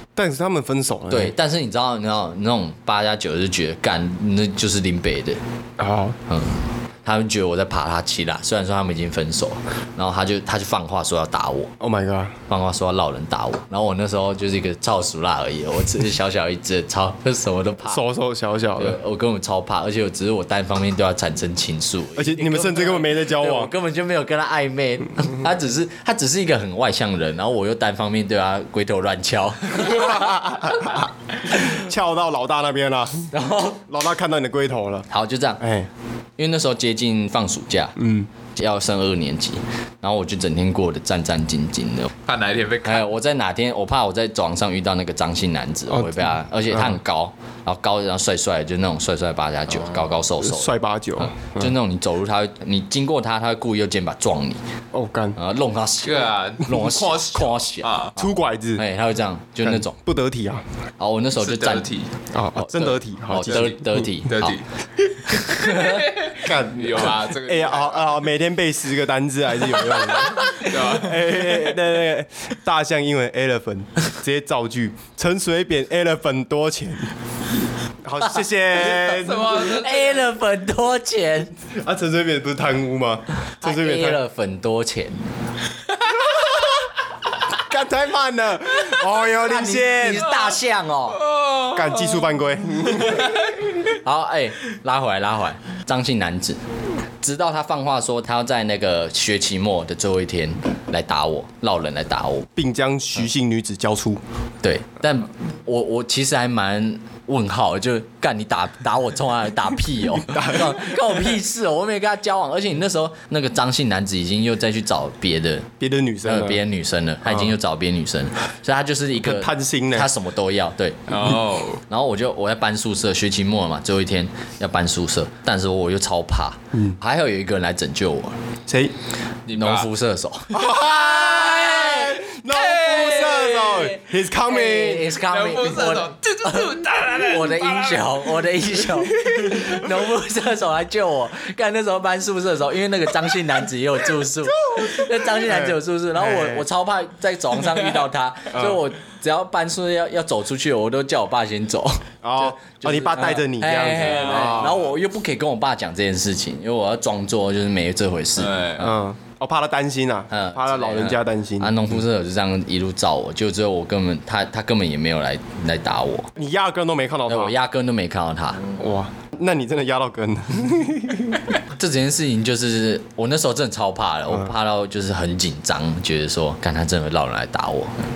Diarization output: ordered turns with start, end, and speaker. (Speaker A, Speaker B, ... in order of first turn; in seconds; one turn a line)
Speaker A: 0.2-1.3
Speaker B: 1.1-5.4
Speaker A: 5.8-6.2
Speaker B: 6.3-11.7
Speaker A: 11.8-12.3
Speaker B: 12.5-18.0
Speaker A: 17.9-19.0
Speaker B: 18.8-30.3
Speaker A: 22.2-23.7
Speaker A: 29.8-33.3
Speaker B: 33.3-33.8
Speaker A: 33.9-35.1
Speaker B: 35.1-35.6
Speaker A: 35.6-35.9
Speaker B: 36.4-38.0
Speaker A: 38.0-38.3
Speaker B: 38.5-42.1
Speaker C: 42.3-43.1
Speaker B: 42.9-50.7
Speaker A: 45.9-47.0
Speaker C: 49.7-50.1
Speaker A: 50.4-51.7
Speaker B: 51.4-54.6
Speaker A: 54.9-55.4
Speaker B: 55.4-57.9
Speaker C: 56.0-58.2
Speaker A: 58.2-58.8
Speaker B: 58.8-59.9
Speaker A: 59.6-60.6
Speaker B: 61.0-61.9
Speaker C: 61.4-62.1
Speaker A: 62.3-64.1
Speaker B: 62.6-64.6
Speaker C: 63.5-64.6
Speaker C: 65.2-68.1
Speaker B: 65.3-66.0
Speaker A: 66.4-77.1
Speaker C: 70.5-71.6
Speaker A: 78.0-79.7
Speaker C: 79.1-80.3
Speaker B: 79.5-81.5
Speaker A: 81.8-84.2
Speaker B: 83.6-85.2
Speaker A: 86.3-86.6
Speaker A: 87.5-90.3
Speaker B: 89.3-91.2
Speaker C: 90.2-90.5
Speaker C: 91.1-92.3
Speaker A: 91.7-93.4
Speaker C: 92.9-93.6
Speaker B: 93.9-96.6
Speaker B: 97.2-102.5
Speaker A: 102.6-104.2
Speaker B: 104.6-115.7
Speaker A: 110.2-110.8
Speaker A: 115.8-116.6
Speaker B: 116.3-121.2
Speaker A: 117.3-117.5
Speaker A: 119.2-120.1
Speaker C: 121.1-121.8
Speaker B: 121.9-128.4
Speaker A: 128.7-128.9
Speaker C: 129.5-129.9
Speaker B: 129.5-130.5
Speaker A: 130.5-135.1
Speaker C: 130.8-133.9
Speaker B: 134.4-158.9
Speaker C: 135.3-138.3
Speaker A: 139.3-139.6
Speaker A: 144.6-146.6
Speaker A: 148.5-148.8
Speaker A: 152.2-154.8
Speaker C: 153.9-154.9
Speaker C: 158.4-158.9
Speaker A: 158.8-162.0
Speaker B: 160.3-166.3
Speaker A: 166.4-167.6
Speaker B: 167.3-168.7
Speaker A: 168.8-171.4
Speaker B: 171.7-178.0
Speaker A: 174.3-174.5